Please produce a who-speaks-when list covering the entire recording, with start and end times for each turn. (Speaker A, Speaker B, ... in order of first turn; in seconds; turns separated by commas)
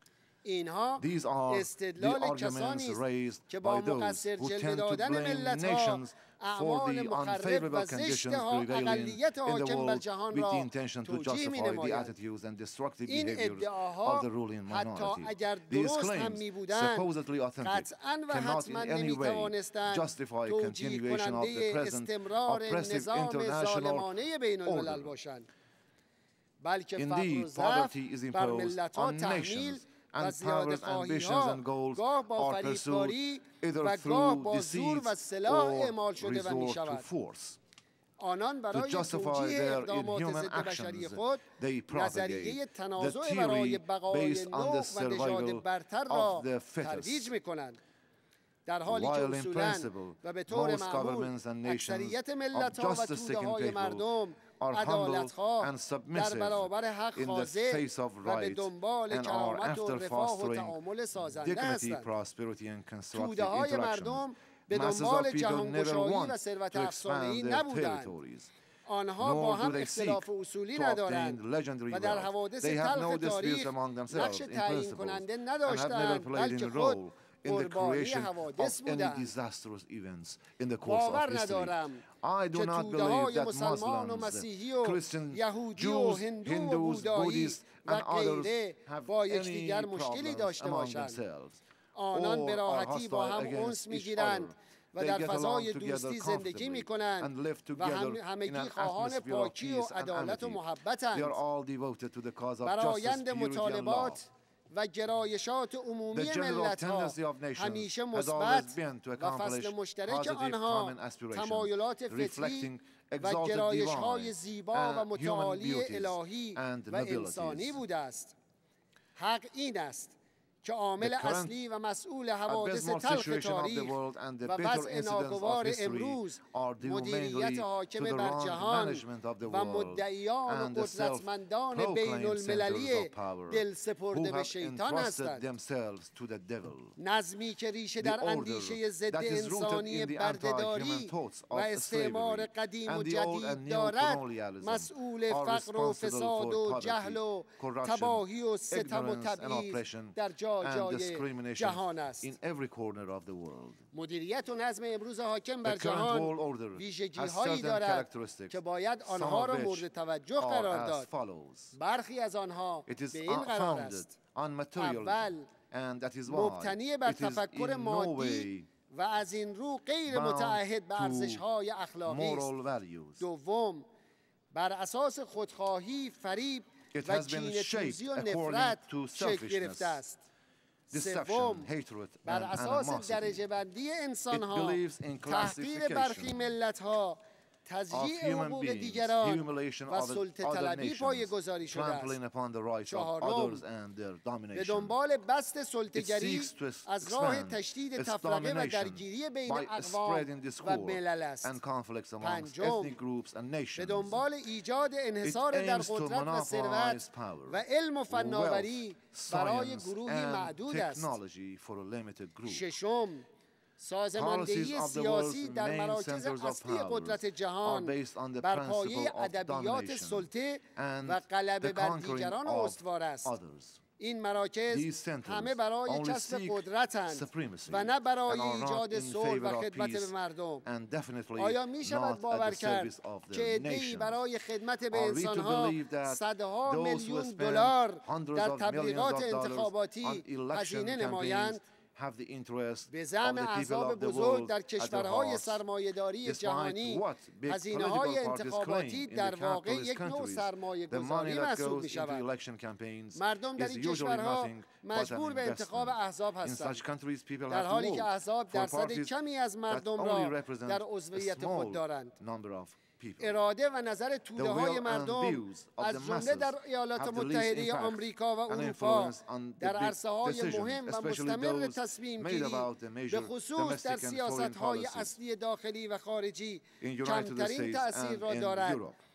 Speaker A: 0.5-12.1, Speaker B: 1.0-24.1, Speaker A: 13.1-17.1, Speaker A: 17.6-25.5, Speaker B: 24.6-25.1, Speaker A: 26.6-37.0, Speaker B: 27.0-37.6, Speaker A: 38.2-47.8, Speaker B: 38.7-47.3, Speaker A: 48.6-62.0, Speaker B: 48.9-54.1, Speaker B: 54.6-68.5, Speaker A: 63.1-68.1, Speaker A: 68.9-79.3, Speaker B: 69.2-91.6, Speaker A: 80.8-91.2, Speaker A: 92.0-101.4, Speaker B: 92.1-100.6, Speaker B: 101.1-104.2, Speaker A: 102.6-112.7, Speaker B: 106.1-117.8, Speaker A: 113.2-118.3, Speaker A: 119.2-135.4, Speaker B: 121.0-121.5, Speaker B: 122.5-136.9, Speaker A: 137.0-152.3, Speaker B: 138.0-153.8, Speaker A: 153.9-161.1, Speaker B: 155.6-159.8, Speaker B: 160.4-161.7, Speaker A: 161.7-164.1, Speaker B: 162.8-168.7, Speaker A: 164.8-165.5, Speaker A: 166.3-172.5, Speaker B: 170.1-171.4, Speaker B: 172.1-173.2, Speaker A: 173.2-173.8, Speaker A: 174.5-180.2, Speaker B: 176.9-180.0, Speaker A: 180.9-181.7, Speaker B: 180.9-183.4, Speaker A: 182.2-192.2, Speaker B: 184.3-186.5, Speaker B: 187.9-194.9, Speaker A: 192.9-193.6, Speaker A: 194.5-201.6, Speaker B: 195.9-204.3, Speaker A: 202.2-203.0, Speaker A: 203.8-211.1, Speaker B: 205.2-212.7, Speaker A: 212.5-213.2, Speaker A: 213.8-223.3, Speaker B: 214.2-223.8, Speaker A: 224.0-230.7, Speaker B: 224.7-230.1, Speaker B: 230.7-234.2, Speaker A: 231.4-241.6, Speaker B: 234.9-245.6, Speaker A: 242.9-252.2, Speaker B: 246.2-259.1, Speaker A: 253.2-256.8, Speaker A: 257.5-262.1, Speaker B: 259.7-263.4, Speaker A: 263.2-278.8, Speaker B: 264.4-275.2, Speaker B: 276.8-279.0